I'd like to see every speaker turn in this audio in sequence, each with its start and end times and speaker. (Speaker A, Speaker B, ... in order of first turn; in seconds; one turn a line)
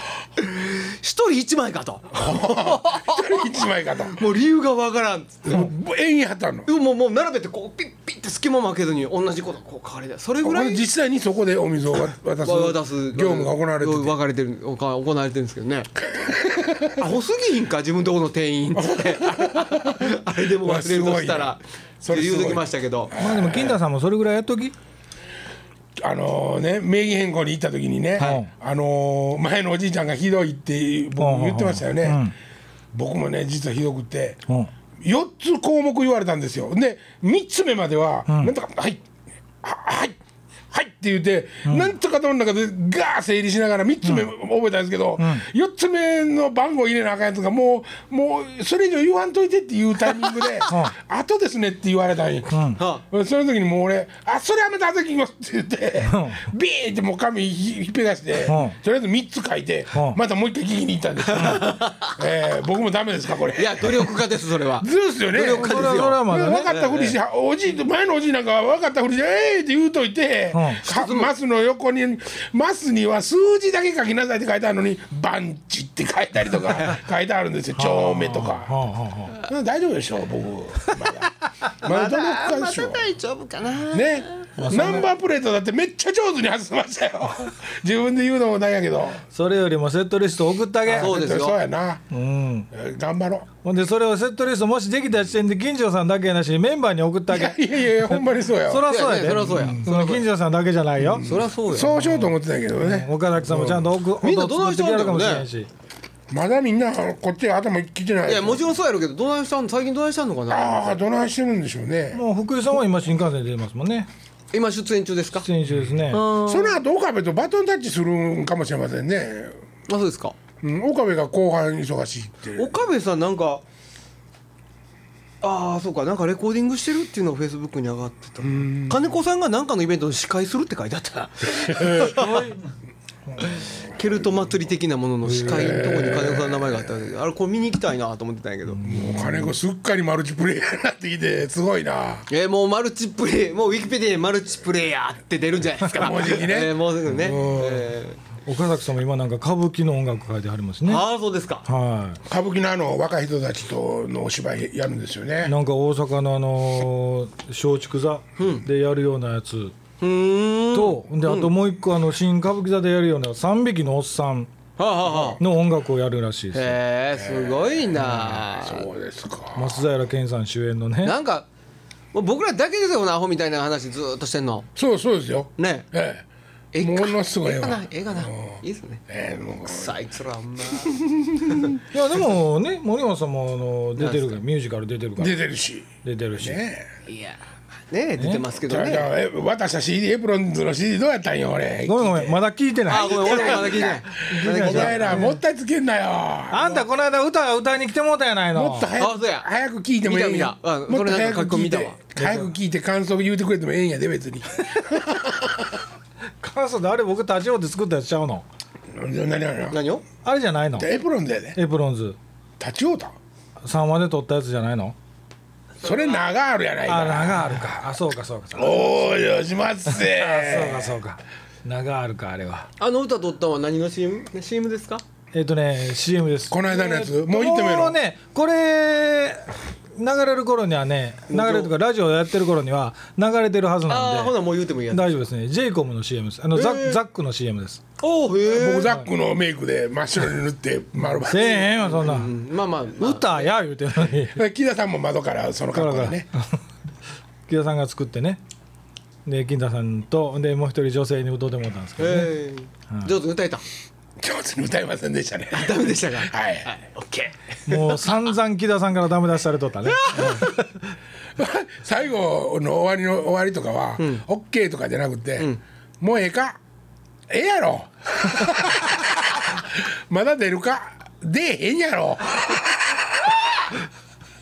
Speaker A: 0.4-5.7
Speaker B: 2.1-4.2
Speaker B: 5.5-6.7
Speaker A: 6.7-10.8
Speaker B: 10.4-14.2
Speaker A: 12.4-15.9
Speaker B: 16.2-16.9
Speaker A: 16.9-23.1
Speaker B: 18.8-23.8
Speaker C: 23.1-24.7
Speaker B: 26.0-32.2
Speaker C: 28.2-28.5
Speaker C: 31.2-32.3
Speaker B: 32.9-34.4
Speaker B: 35.0-39.0
Speaker C: 38.3-38.5
Speaker B: 39.6-40.2
Speaker B: 40.7-64.1
Speaker C: 41.6-41.9
Speaker C: 45.2-45.5
Speaker A: 50.2-50.7
Speaker C: 50.7-50.9
Speaker C: 52.5-52.8
Speaker A: 52.8-53.0
Speaker C: 56.0-56.5
Speaker C: 58.5-58.8
Speaker C: 59.9-60.2
Speaker A: 61.3-62.1
Speaker C: 61.4-61.6
Speaker A: 63.5-67.2
Speaker B: 64.8-78.7
Speaker C: 65.5-66.7
Speaker C: 70.5-70.8
Speaker A: 70.8-71.3
Speaker C: 77.8-79.3
Speaker B: 79.4-83.0
Speaker A: 81.6-84.6
Speaker B: 83.9-89.2
Speaker C: 84.6-85.1
Speaker C: 89.3-91.1
Speaker B: 90.9-92.0
Speaker A: 90.9-91.6
Speaker C: 92.1-92.7
Speaker B: 92.7-93.5
Speaker C: 93.6-101.3
Speaker B: 97.3-98.8
Speaker A: 98.8-100.2
Speaker B: 101.0-103.9
Speaker A: 101.2-102.0
Speaker C: 101.9-105.7
Speaker A: 104.2-105.5
Speaker B: 106.3-108.6
Speaker A: 108.2-111.0
Speaker B: 110.5-112.2
Speaker C: 112.1-114.1
Speaker A: 114.5-115.5
Speaker C: 115.4-116.2
Speaker A: 116.1-116.8
Speaker B: 116.4-119.5
Speaker A: 119.9-120.4
Speaker B: 120.6-122.7
Speaker A: 122.5-123.6
Speaker A: 125.4-132.5
Speaker B: 128.4-129.0
Speaker B: 131.7-132.2
Speaker C: 131.9-132.6
Speaker A: 133.4-138.8
Speaker C: 135.3-136.1
Speaker B: 135.4-136.8
Speaker C: 138.8-139.5
Speaker B: 138.8-142.2
Speaker A: 142.3-148.2
Speaker B: 145.9-147.9
Speaker C: 148.4-151.0
Speaker A: 150.8-151.7
Speaker C: 151.7-152.2
Speaker B: 152.2-155.5
Speaker C: 155.4-159.7
Speaker A: 158.4-158.7
Speaker A: 160.0-161.5
Speaker C: 160.7-164.5
Speaker A: 164.8-165.4
Speaker B: 165.0-165.4
Speaker C: 165.4-166.8
Speaker A: 166.5-168.9
Speaker B: 167.2-167.8
Speaker C: 167.9-168.4
Speaker B: 168.6-169.8
Speaker C: 169.5-171.1
Speaker A: 171.0-171.5
Speaker A: 172.1-174.7
Speaker B: 174.8-176.2
Speaker A: 175.6-175.9
Speaker A: 176.7-179.0
Speaker B: 176.8-179.9
Speaker A: 179.6-181.7
Speaker B: 180.8-181.8
Speaker C: 181.9-185.4
Speaker A: 183.9-184.4
Speaker B: 185.2-186.9
Speaker C: 186.0-186.6
Speaker A: 187.1-187.4
Speaker A: 187.9-189.1
Speaker C: 188.2-188.4
Speaker B: 188.7-192.4
Speaker C: 191.8-195.4
Speaker A: 192.9-195.3
Speaker B: 192.9-196.8
Speaker C: 196.5-198.9
Speaker B: 198.5-205.6
Speaker A: 199.0-199.5
Speaker A: 200.0-202.0
Speaker C: 202.2-202.5
Speaker C: 206.4-208.4
Speaker B: 208.9-209.8
Speaker A: 209.7-210.0
Speaker C: 210.2-210.9
Speaker B: 210.8-211.6
Speaker C: 211.6-212.2
Speaker B: 212.6-213.1
Speaker C: 213.6-214.9
Speaker B: 215.8-217.8
Speaker C: 216.8-219.3
Speaker B: 218.5-220.9
Speaker C: 219.9-222.7
Speaker A: 222.8-225.0
Speaker C: 225.3-234.4
Speaker B: 226.5-228.0
Speaker A: 231.3-231.7
Speaker A: 233.9-235.2
Speaker C: 234.9-237.8
Speaker A: 236.5-237.0
Speaker A: 238.0-238.9
Speaker B: 238.4-241.7
Speaker C: 241.2-242.3
Speaker A: 241.3-243.5
Speaker C: 243.0-244.4
Speaker B: 244.3-246.3
Speaker C: 245.7-246.6
Speaker C: 247.5-248.4
Speaker C: 249.2-252.3
Speaker A: 252.0-253.6
Speaker B: 254.2-256.7
Speaker A: 255.5-258.1
Speaker C: 257.7-260.5
Speaker A: 259.9-260.7
Speaker B: 261.4-266.6
Speaker A: 264.0-264.2
Speaker B: 267.3-273.7